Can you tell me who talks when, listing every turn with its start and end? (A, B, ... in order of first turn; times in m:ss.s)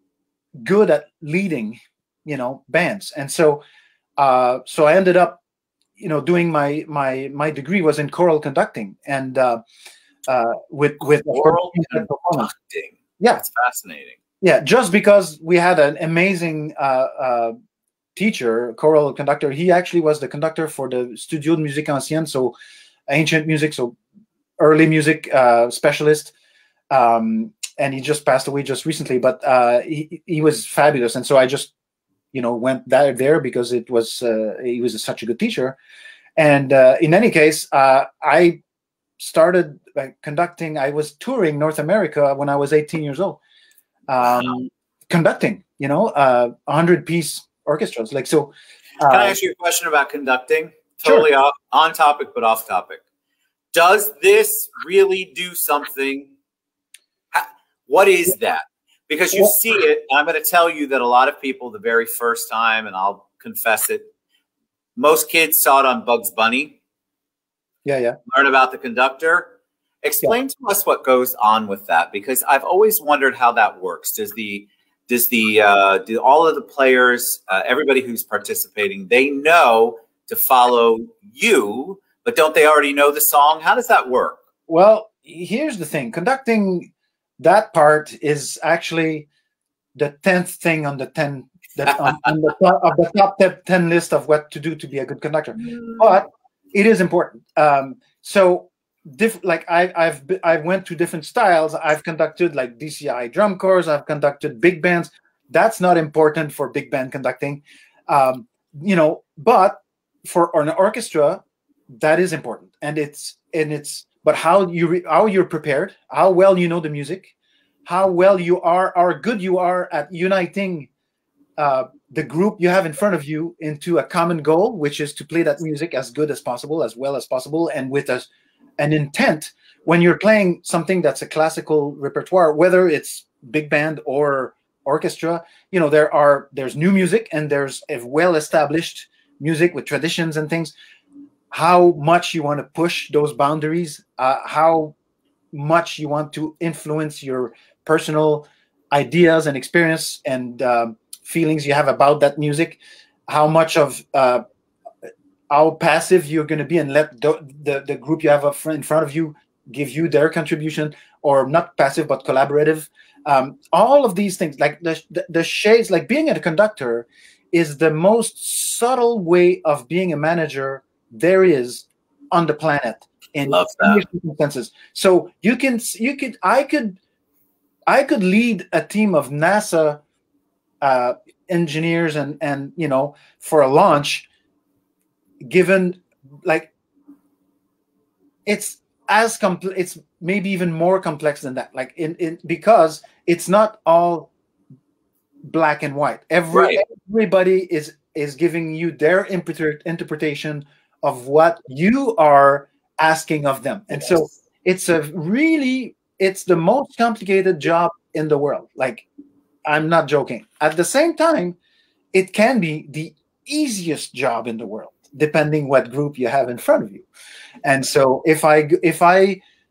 0:00.6-0:03.6 A
0:04.2-0:05.4 A
0:06.0-0:09.6 A
0:10.3-0:12.5 A
0:11.3-0:14.2 B
0:14.4-0:17.6 A
0:18.2-0:22.6 A
0:23.1-0:24.0 A
0:24.6-0:26.3 A
0:26.9-0:31.7 A
0:32.3-0:35.8 A
0:36.4-0:38.6 A
0:39.2-0:43.4 A
0:44.1-0:49.4 A
0:44.2-0:44.5 B
0:49.1-0:53.0 B
0:53.7-0:56.3 B
0:57.3-1:04.1 B
1:05.0-1:06.8 B
1:07.8-1:08.2 A
1:08.3-1:09.5 B
1:10.0-1:24.4 B
1:24.7-1:29.3 A
1:30.0-1:51.4 A
1:35.6-1:36.2 B
1:52.0-1:57.3 A
1:57.9-2:00.9 A
2:01.6-2:20.7 A
2:21.5-2:25.0 A
2:25.5-2:34.4 A
2:35.5-2:57.0 A
2:53.5-2:54.0 B
2:57.9-3:00.0 A
3:00.8-3:04.3 A
3:05.4-3:06.7 A
3:08.5-3:14.3 A
3:15.4-3:29.0 A
3:16.5-3:16.8 B
3:29.7-3:31.6 A
3:32.1-3:37.1 A
3:37.6-3:39.4 A